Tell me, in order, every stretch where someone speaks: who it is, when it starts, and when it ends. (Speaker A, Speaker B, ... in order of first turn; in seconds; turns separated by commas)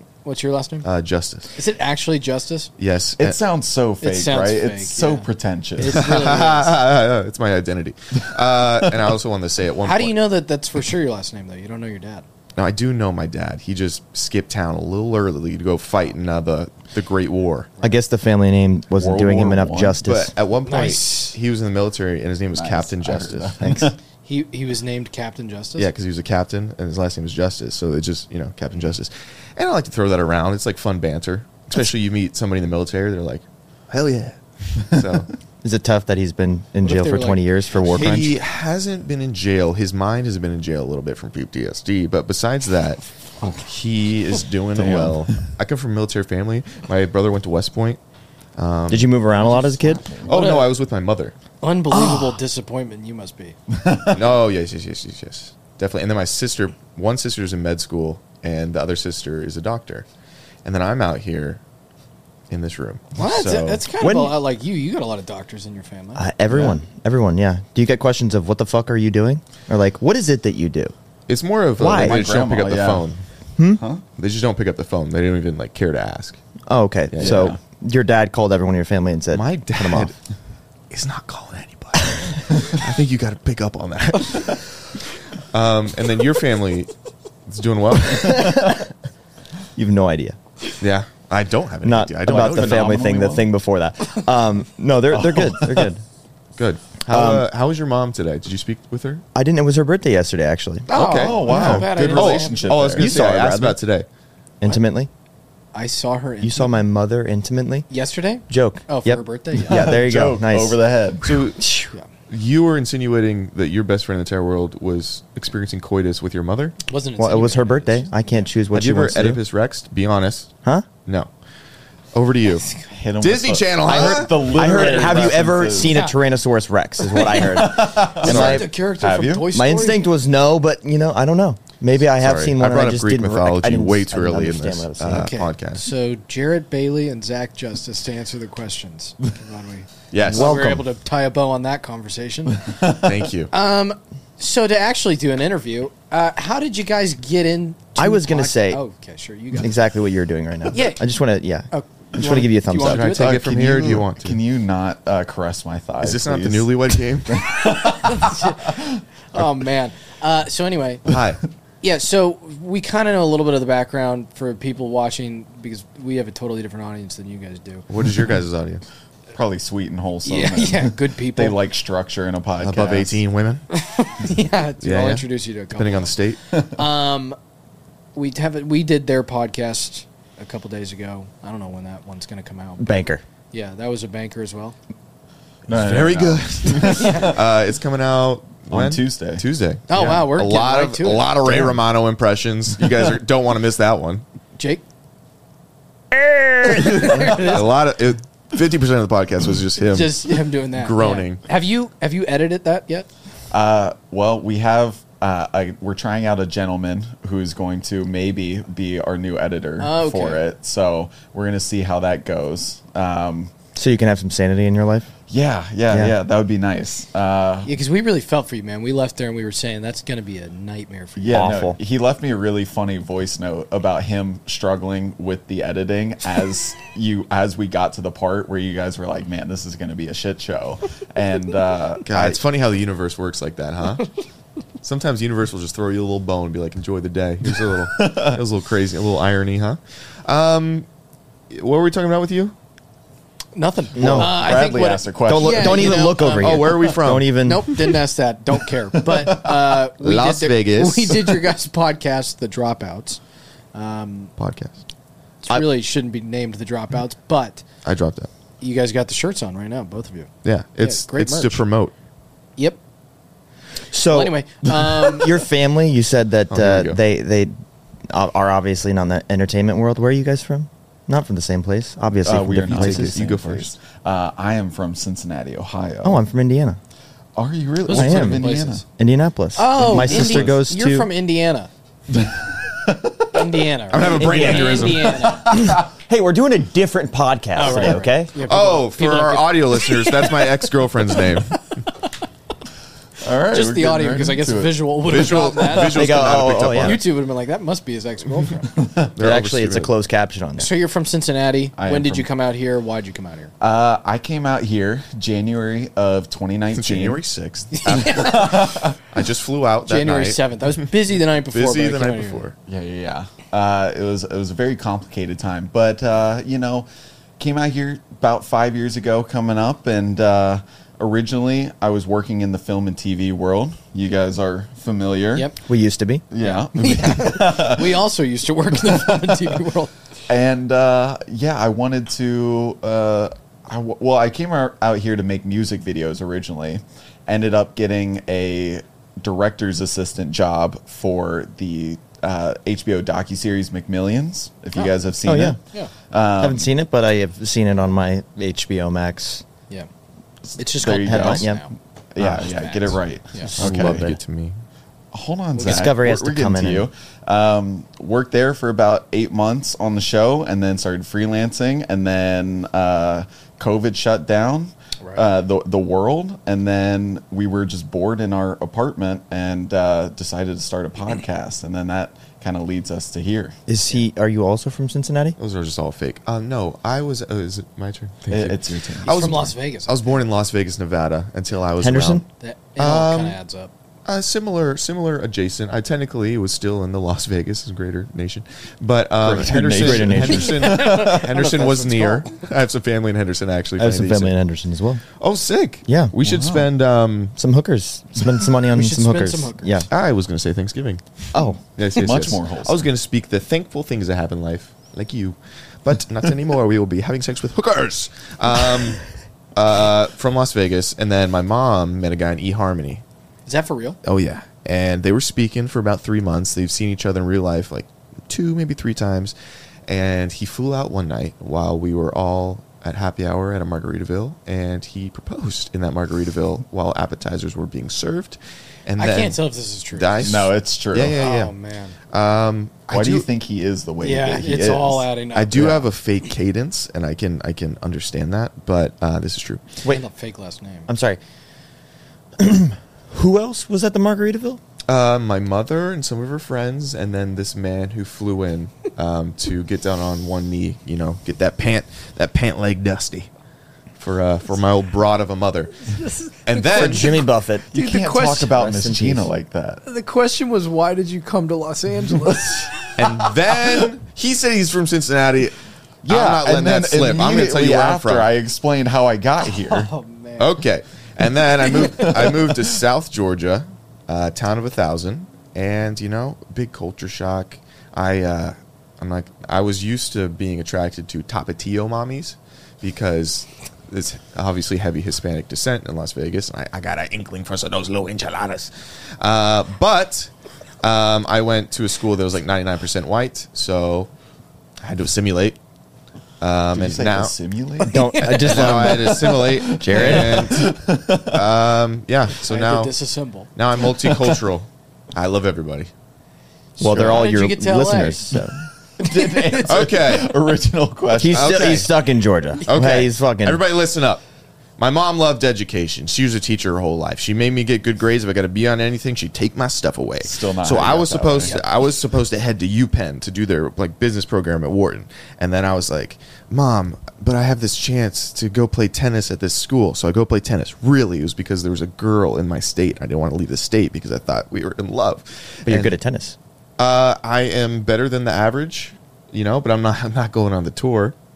Speaker A: 0.2-0.8, Speaker B: 0.8-1.5, Speaker A: 1.5-2.7, Speaker B: 2.8-3.4, Speaker C: 3.2-6.1, Speaker A: 4.0-6.8, Speaker B: 5.8-10.2, Speaker A: 9.8-12.2, Speaker B: 12.6-17.7, Speaker D: 17.8-20.3, Speaker C: 18.9-20.0, Speaker B: 20.0-23.8, Speaker A: 20.6-21.4, Speaker C: 22.5-23.9, Speaker A: 24.2-25.9, Speaker B: 25.8-35.3, Speaker D: 35.6-38.4, Speaker A: 36.8-37.5, Speaker B: 37.8-48.0, Speaker C: 44.8-45.4, Speaker B: 48.6-49.1, Speaker D: 48.9-50.1, Speaker C: 49.4-50.4, Speaker B: 50.2-51.3, Speaker A: 50.3-50.7, Speaker A: 51.6-53.5, Speaker D: 51.9-52.4, Speaker C: 53.7-54.2, Speaker B: 54.1-60.0, Speaker B: 60.6-61.6, Speaker B: 62.5-63.8, Speaker A: 63.2-66.2, Speaker D: 64.0-64.4, Speaker D: 66.2-70.9, Speaker C: 66.5-66.8, Speaker B: 71.3-73.2, Speaker D: 71.8-72.3, Speaker C: 71.8-73.1, Speaker D: 73.6-73.8, Speaker C: 73.7-74.0, Speaker B: 74.2-76.4, Speaker D: 76.7-80.1, Speaker B: 77.1-77.5, Speaker C: 77.2-77.6, Speaker B: 79.3-80.2, Speaker B: 80.9-86.9, Speaker B: 87.5-88.8, Speaker D: 88.2-88.8, Speaker D: 89.8-90.4, Speaker B: 90.8-93.0, Speaker D: 91.8-96.0, Speaker C: 92.3-93.5, Speaker C: 95.1-95.9, Speaker B: 96.6-99.2, Speaker D: 97.1-97.5, Speaker D: 99.3-100.9, Speaker B: 100.9-104.0, Speaker A: 100.9-102.8, Speaker C: 101.0-103.2, Speaker D: 101.5-101.8, Speaker D: 102.9-103.8, Speaker D: 104.6-105.1, Speaker A: 105.7-106.7, Speaker D: 106.4-107.9, Speaker A: 107.9-109.9, Speaker D: 108.5-110.8, Speaker C: 109.7-111.4, Speaker B: 111.2-116.8, Speaker D: 111.6-111.9, Speaker A: 116.9-118.4, Speaker D: 117.2-119.4, Speaker B: 118.7-120.5, Speaker B: 122.1-125.3, Speaker C: 122.9-126.0, Speaker D: 123.8-128.7, Speaker A: 125.8-126.2, Speaker A: 127.1-130.0, Speaker C: 127.3-129.5, Speaker B: 128.2-128.7, Speaker D: 129.5-135.3, Speaker B: 132.2-135.8, Speaker A: 135.1-142.7, Speaker B: 140.1-140.6, Speaker D: 140.3-140.8, Speaker B: 142.9-143.5, Speaker A: 143.5-149.8, Speaker D: 148.0-148.8, Speaker D: 149.6-153.1, Speaker A: 150.7-151.0, Speaker A: 151.7-153.3, Speaker B: 152.8-154.4, Speaker C: 153.0-159.0, Speaker B: 156.0-157.6, Speaker A: 157.7-158.8, Speaker A: 159.3-161.0, Speaker B: 161.1-161.4, Speaker A: 161.8-167.9, Speaker B: 167.9-168.8, Speaker C: 169.3-173.2, Speaker A: 170.2-171.6, Speaker B: 172.6-173.6, Speaker A: 173.7-177.4, Speaker B: 174.8-176.4, Speaker A: 178.1-182.9, Speaker D: 182.8-183.2, Speaker A: 183.5-184.8, Speaker C: 185.7-187.4, Speaker B: 185.7-194.2, Speaker A: 186.8-187.4, Speaker C: 188.7-189.4, Speaker A: 189.9-191.4, Speaker A: 194.6-194.8, Speaker A: 196.6-197.7, Speaker B: 196.8-201.4, Speaker A: 199.8-203.1, Speaker C: 203.5-213.5, Speaker A: 209.8-210.4, Speaker D: 213.7-215.1, Speaker C: 215.3-217.7, Speaker D: 215.9-216.1, Speaker A: 217.7-221.6, Speaker C: 221.2-232.4, Speaker D: 221.3-221.8, Speaker B: 232.1-234.1, Speaker B: 234.8-240.8, Speaker C: 237.6-238.4, Speaker B: 241.5-242.5, Speaker A: 243.5-246.9, Speaker D: 243.9-244.6, Speaker C: 244.0-246.1, Speaker D: 245.2-247.7, Speaker B: 246.4-248.0, Speaker A: 247.4-253.2, Speaker C: 249.0-249.6, Speaker B: 250.0-251.4, Speaker A: 253.7-254.3, Speaker B: 254.4-254.8, Speaker A: 255.4-257.6, Speaker B: 257.8-258.3, Speaker A: 258.6-260.3, Speaker B: 260.4-261.9, Speaker A: 260.8-261.6, Speaker D: 263.9-267.5, Speaker A: 264.1-265.4, Speaker B: 266.5-267.0, Speaker D: 268.1-273.2, Speaker C: 272.2-276.2, Speaker B: 272.7-273.7, Speaker D: 276.0-276.8, Speaker C: 277.4-278.8, Speaker A: 277.8-278.8, Speaker D: 277.9-281.1, Speaker A: 279.6-281.7, Speaker C: 279.7-280.6, Speaker C: 282.1-283.4, Speaker A: 283.3-285.5, Speaker B: 283.9-285.3, Speaker D: 284.2-284.9, Speaker C: 285.0-285.8, Speaker D: 285.4-288.3, Speaker A: 287.5-290.5, Speaker B: 288.4-291.7, Speaker C: 293.2-295.3, Speaker A: 293.5-298.7, Speaker B: 295.0-297.0, Speaker D: 295.9-297.0, Speaker C: 298.8-299.1, Speaker B: 299.1-299.9, Speaker D: 299.2-300.7, Speaker A: 300.6-303.5, Speaker C: 301.8-302.3, Speaker C: 303.6-307.2, Speaker B: 306.7-310.5, Speaker A: 307.7-308.8, Speaker C: 307.9-309.0, Speaker A: 309.9-312.4, Speaker B: 311.4-312.6, Speaker C: 312.7-325.5, Speaker D: 325.6-326.2, Speaker C: 326.3-328.0, Speaker A: 326.4-329.9, Speaker C: 328.8-329.5, Speaker C: 330.3-345.6, Speaker D: 345.2-345.6, Speaker C: 346.1-346.7, Speaker D: 346.4-349.4, Speaker C: 350.4-351.6, Speaker A: 350.6-351.7, Speaker D: 350.8-351.6, Speaker C: 352.1-354.1, Speaker D: 352.2-352.5, Speaker A: 352.4-353.6, Speaker D: 353.4-354.1, Speaker B: 353.6-354.6, Speaker C: 355.1-373.6, Speaker A: 355.6-355.8, Speaker D: 355.6-356.9, Speaker D: 373.7-375.4, Speaker B: 375.4-382.2, Speaker C: 378.3-379.3, Speaker A: 379.0-380.2, Speaker D: 381.8-382.2, Speaker A: 382.4-383.7, Speaker B: 382.8-383.4, Speaker B: 384.1-394.3, Speaker C: 389.2-391.3, Speaker D: 389.4-390.6, Speaker A: 390.4-392.3, Speaker D: 393.8-395.0, Speaker B: 395.2-397.3, Speaker D: 395.9-396.1, Speaker C: 396.2-396.7, Speaker D: 397.4-399.9, Speaker A: 398.7-399.9, Speaker B: 399.9-409.0, Speaker D: 401.3-401.6, Speaker C: 401.9-402.9, Speaker B: 409.5-413.0, Speaker A: 413.4-414.0, Speaker B: 414.0-419.3, Speaker B: 419.9-429.4, Speaker A: 429.0-430.3, Speaker B: 429.9-431.5, Speaker C: 430.2-431.2, Speaker A: 431.1-431.9, Speaker B: 432.1-433.3, Speaker C: 432.9-435.8, Speaker A: 434.0-435.8, Speaker B: 435.3-439.8, Speaker A: 439.8-440.9, Speaker D: 440.9-441.2, Speaker D: 442.4-444.6, Speaker B: 444.9-453.3, Speaker B: 454.0-457.2, Speaker A: 455.9-458.5, Speaker D: 456.7-457.7, Speaker C: 457.7-459.8, Speaker D: 458.4-459.3, Speaker A: 459.8-462.9, Speaker B: 463.0-468.3, Speaker C: 466.0-469.9, Speaker A: 469.6-470.6, Speaker B: 470.4-490.3, Speaker C: 471.6-472.6, Speaker B: 490.8-494.1, Speaker B: 494.8-495.6, Speaker B: 496.4-497.3, Speaker C: 496.7-498.0, Speaker A: 497.9-499.2, Speaker D: 497.9-499.2, Speaker B: 498.3-502.9, Speaker C: 498.6-501.4, Speaker D: 499.7-500.4, Speaker A: 502.4-503.5, Speaker B: 503.5-505.9, Speaker A: 504.0-504.3, Speaker A: 506.8-508.3, Speaker D: 506.8-508.6, Speaker B: 506.8-507.2, Speaker C: 509.0-511.8, Speaker A: 509.0-509.9, Speaker B: 509.6-510.3, Speaker D: 511.1-513.6, Speaker B: 511.3-511.9, Speaker B: 512.6-514.2, Speaker B: 514.8-535.9, Speaker C: 520.2-521.6, Speaker D: 535.6-536.4, Speaker B: 536.8-541.1